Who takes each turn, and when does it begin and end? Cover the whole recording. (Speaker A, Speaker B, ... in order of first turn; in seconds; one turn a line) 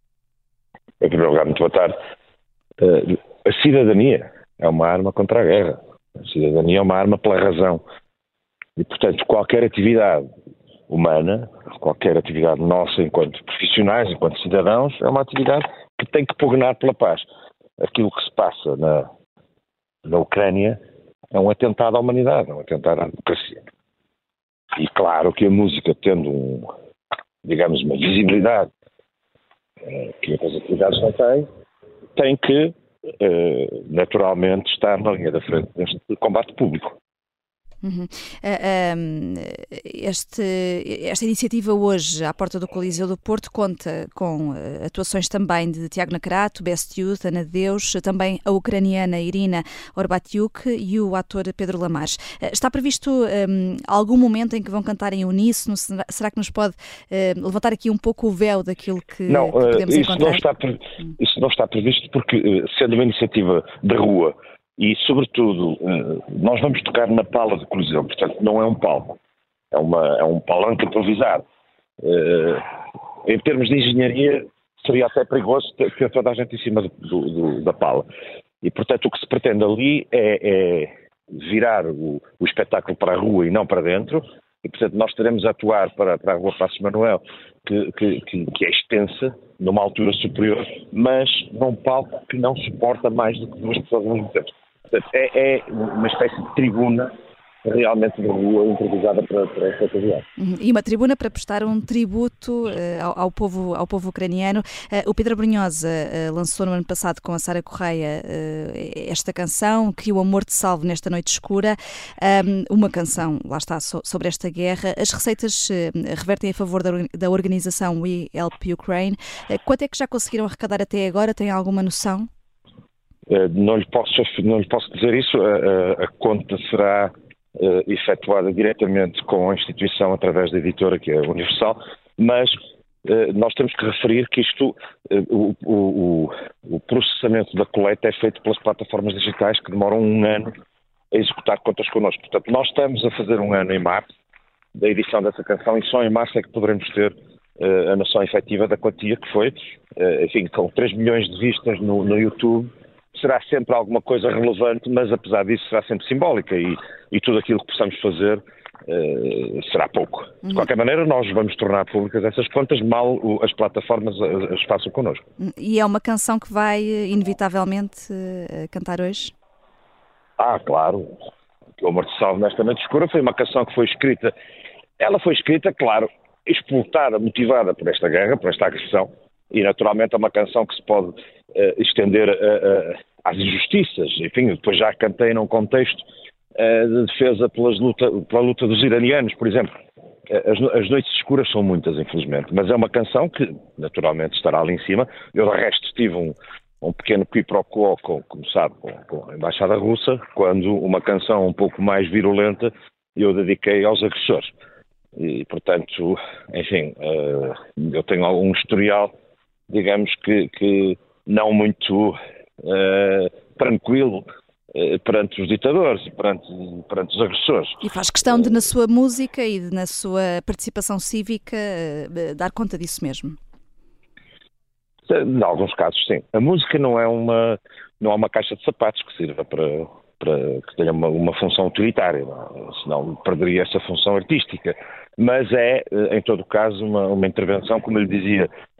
Speaker A: 1.0-1.9
Speaker A: 2.8-7.8
Speaker A: 8.8-10.2
Speaker A: 10.9-17.3
Speaker A: 17.8-19.1
Speaker A: 20.0-20.8
Speaker A: 21.3-23.6
Speaker A: 24.7-26.7
Speaker A: 27.4-28.7
Speaker A: 29.8-31.5
Speaker A: 32.1-37.0
Speaker B: 37.8-60.5
Speaker A: 59.3-69.2
Speaker A: 69.7-71.4
Speaker A: 72.0-72.6
Speaker A: 73.2-78.1
Speaker A: 78.6-97.1
Speaker A: 97.6-100.2
Speaker B: 100.4-122.3
Speaker A: 123.3-140.5
Speaker A: 141.1-144.1
Speaker A: 144.8-165.2
Speaker B: 165.4-169.3
Speaker A: 170.4-171.1
Speaker A: 171.8-174.3
Speaker A: 175.0-189.7
Speaker A: 190.3-204.5
Speaker A: 205.2-209.1
Speaker A: 209.7-217.8
Speaker B: 217.8-223.4
Speaker A: 225.1-238.5